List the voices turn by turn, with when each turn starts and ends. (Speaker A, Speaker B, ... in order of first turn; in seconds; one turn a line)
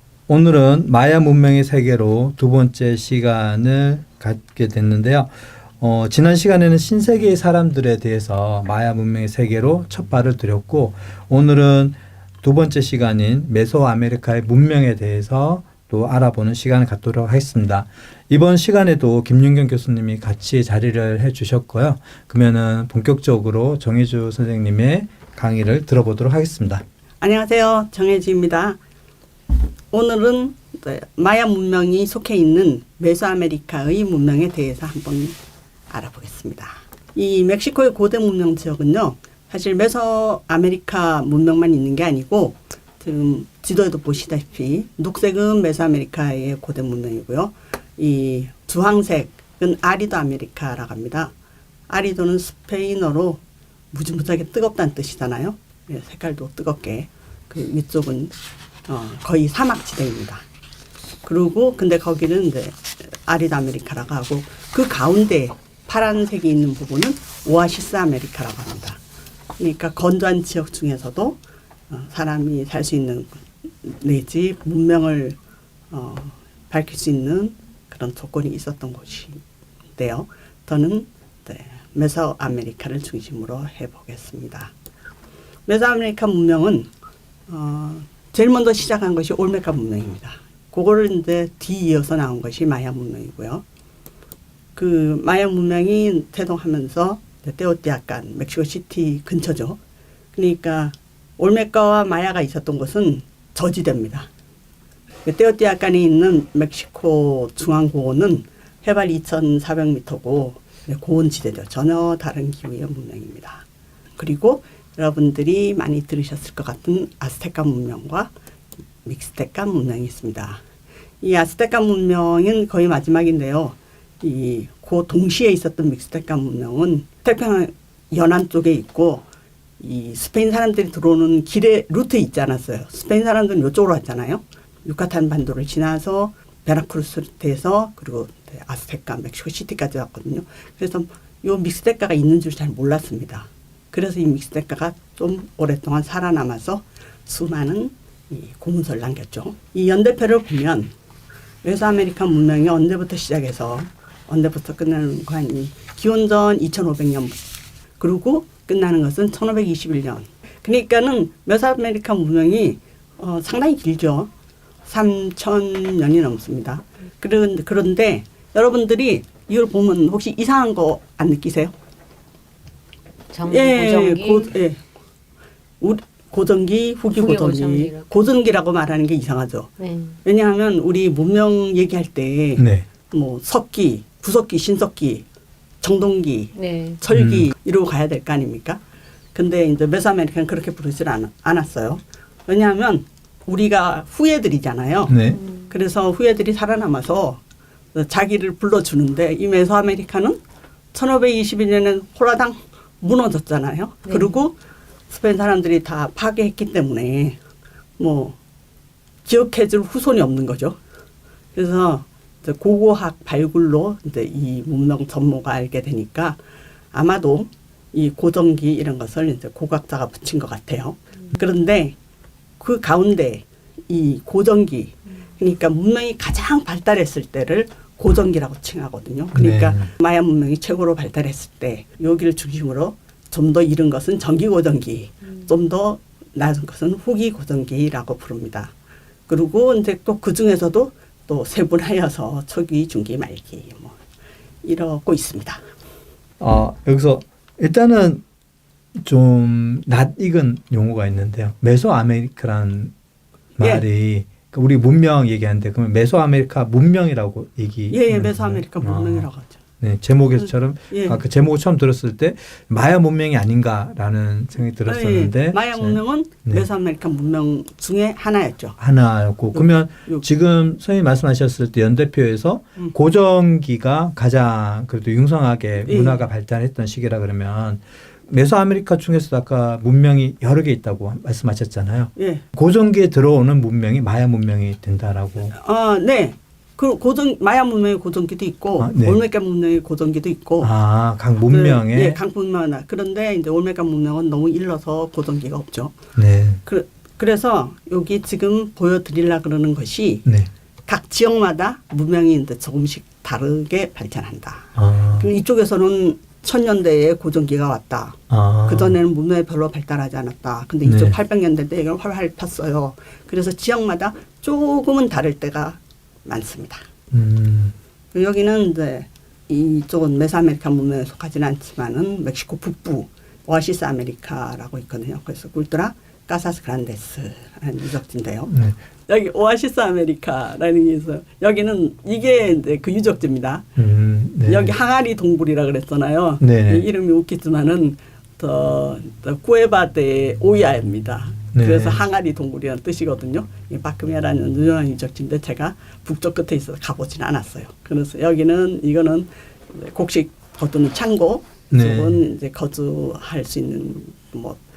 Speaker A: 0.3-26.8
Speaker B: 27.2-28.8
Speaker B: 29.9-35.4
Speaker B: 35.9-51.3
Speaker B: 51.9-53.4
Speaker B: 53.9-58.3
Speaker B: 58.9-60.4
Speaker B: 61.2-69.0
Speaker B: 69.6-71.4
Speaker B: 71.9-75.4
Speaker B: 75.9-79.4
Speaker B: 80.0-84.7
Speaker B: 85.7-86.9
Speaker B: 87.5-93.6
Speaker B: 94.8-99.8
Speaker B: 100.4-104.3
Speaker B: 105.2-113.7
Speaker B: 114.2-118.3
Speaker B: 119.0-120.6
Speaker B: 121.2-129.2
Speaker B: 129.8-150.9
Speaker B: 151.6-157.4
Speaker B: 158.0-164.3
Speaker B: 164.9-171.7
Speaker C: 173.3-174.5
Speaker B: 173.5-174.8
Speaker B: 175.8-179.7
Speaker C: 177.2-178.1
Speaker C: 179.8-180.2
Speaker B: 180.2-185.2
Speaker A: 182.6-182.9
Speaker B: 185.8-188.8
Speaker C: 186.6-187.0
Speaker A: 187.1-187.5
Speaker B: 189.3-195.2
Speaker A: 195.1-195.4
Speaker C: 195.3-195.7
Speaker B: 195.7-197.4
Speaker B: 197.9-200.4
Speaker B: 200.9-204.6
Speaker C: 204.1-204.4
Speaker B: 205.1-207.4
Speaker B: 208.0-208.4
Speaker B: 209.2-210.8
Speaker B: 211.6-216.4
Speaker B: 216.9-222.0
Speaker B: 222.6-238.7
Speaker A: 229.3-229.9
Speaker B: 239.3-244.0
Speaker B: 244.6-245.6
Speaker A: 246.4-248.2
Speaker A: 249.0-252.9
Speaker A: 253.6-259.3
Speaker B: 253.6-253.8
Speaker B: 257.9-259.6
Speaker A: 259.8-266.7
Speaker B: 260.4-261.2
Speaker B: 264.9-268.8
Speaker A: 268.8-285.6
Speaker B: 269.5-270.2
Speaker B: 275.8-276.2
Speaker B: 282.2-282.4
Speaker B: 285.5-290.7
Speaker A: 288.8-289.2
Speaker A: 290.6-292.2
Speaker B: 291.5-296.0
Speaker A: 296.2-296.6
Speaker B: 296.6-300.3
Speaker A: 300.2-300.5
Speaker B: 300.9-316.9
Speaker A: 304.8-305.3
Speaker A: 308.3-309.0
Speaker A: 310.9-311.1
Speaker A: 317.1-317.8
Speaker B: 318.1-328.5
Speaker A: 328.5-328.8
Speaker B: 329.1-333.7
Speaker A: 333.8-334.7
Speaker B: 334.5-354.6
Speaker A: 336.4-336.9
Speaker A: 341.5-342.0
Speaker A: 351.7-352.2